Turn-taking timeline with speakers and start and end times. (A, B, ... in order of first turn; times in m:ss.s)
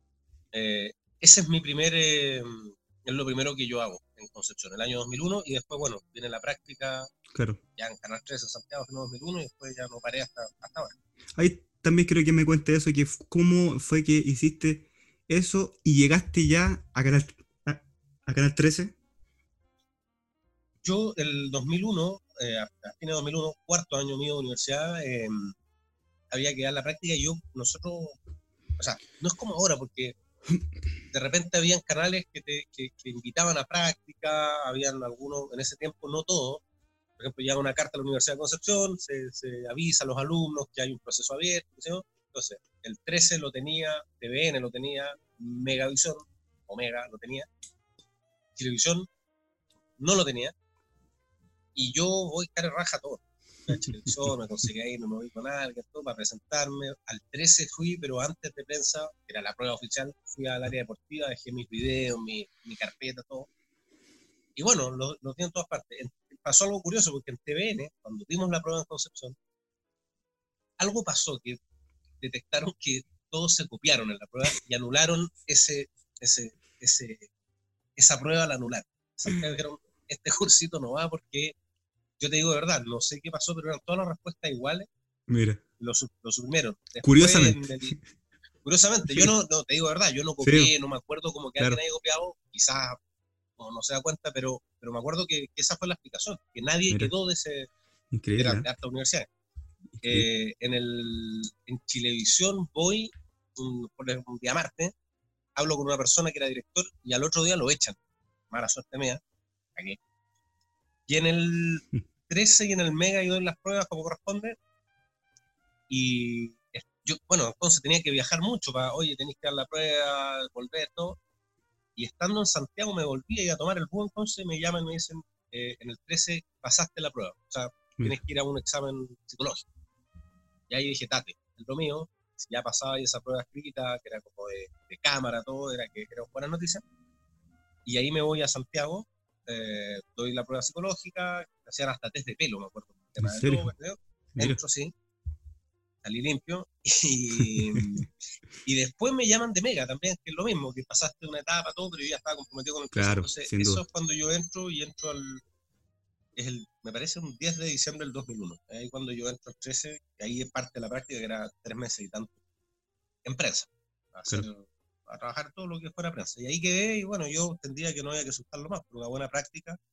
0:00.5-0:07.1 A
0:07.3-0:07.6 B
0:07.8-0:10.9 A
0:11.4-0:18.9 B
0:20.8-0:25.6 A
0:26.3-0:28.2 A
0:28.8-0:30.2 A
0:31.1-0:36.6 A
0:37.2-0:47.5 A
0:48.5-0:49.1 A
0:50.0-0:50.5 A
0:51.7-1:03.5 A
0:53.7-0:54.2 B
1:04.6-1:09.4 A
1:10.8-1:11.6 A
1:12.2-1:17.3 A
1:18.0-1:21.5 A
1:22.2-1:24.9 A
1:25.3-1:25.6 B
1:25.8-1:28.0 A
1:27.0-1:28.0 B
1:28.6-1:33.0 A
1:30.4-1:30.7 B
1:33.6-1:37.7 A
1:38.1-1:38.7 B
1:38.4-1:39.3 A
1:40.0-1:40.3 B
1:40.0-1:44.9 A
1:45.6-1:48.0 A
1:48.5-1:49.2 A
1:49.7-1:50.0 A
1:51.1-1:54.6 A
1:55.9-2:01.2 A
2:02.0-2:09.6 A
2:10.7-2:16.8 A
2:17.8-2:24.9 A
2:23.2-2:23.7 B
2:26.0-2:28.1 A
2:27.4-2:28.0 B
2:28.6-2:35.4 A
2:32.9-2:33.8 B
2:36.4-2:42.3 A
2:43.2-2:49.8 A